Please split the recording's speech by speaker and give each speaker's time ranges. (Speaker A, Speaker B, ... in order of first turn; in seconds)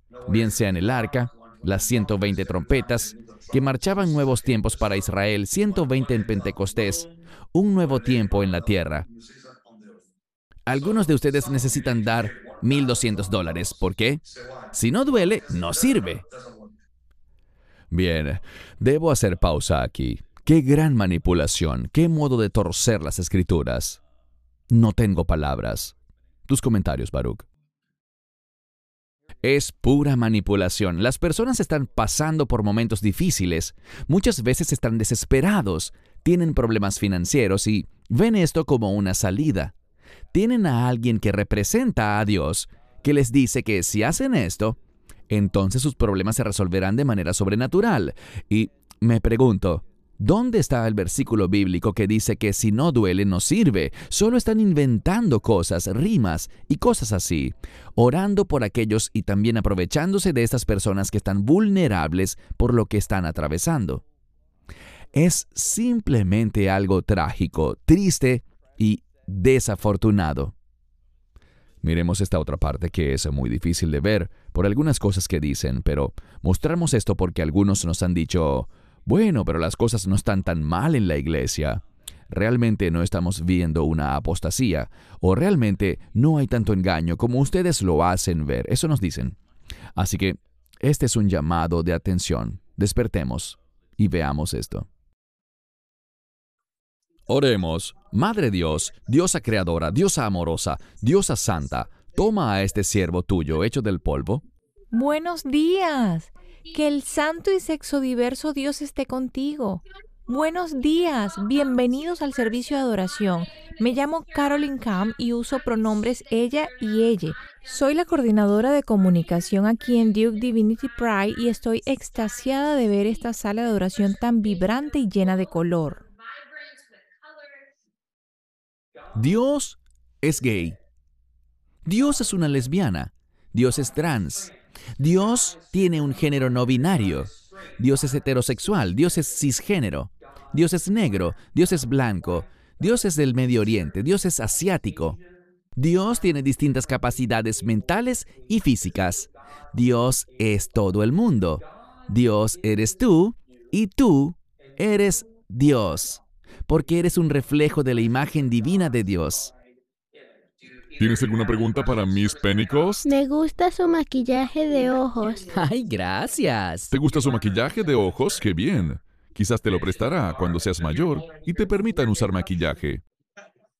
Speaker A: 0.2-9.1, 10.7-16.3, 17.9-24.0, 24.7-25.9, 26.5-27.4, 29.4-39.7, 40.3-44.8, 45.3-64.0, 65.1-70.5, 71.8-89.4, 90.0-94.9, 97.3-104.4, 129.1-130.8, 131.8-145.2, 145.8-159.5, 165.5-166.9
Speaker B: 104.9-126.0
Speaker C: 161.0-163.0, 166.9-173.0
Speaker D: 163.0-165.5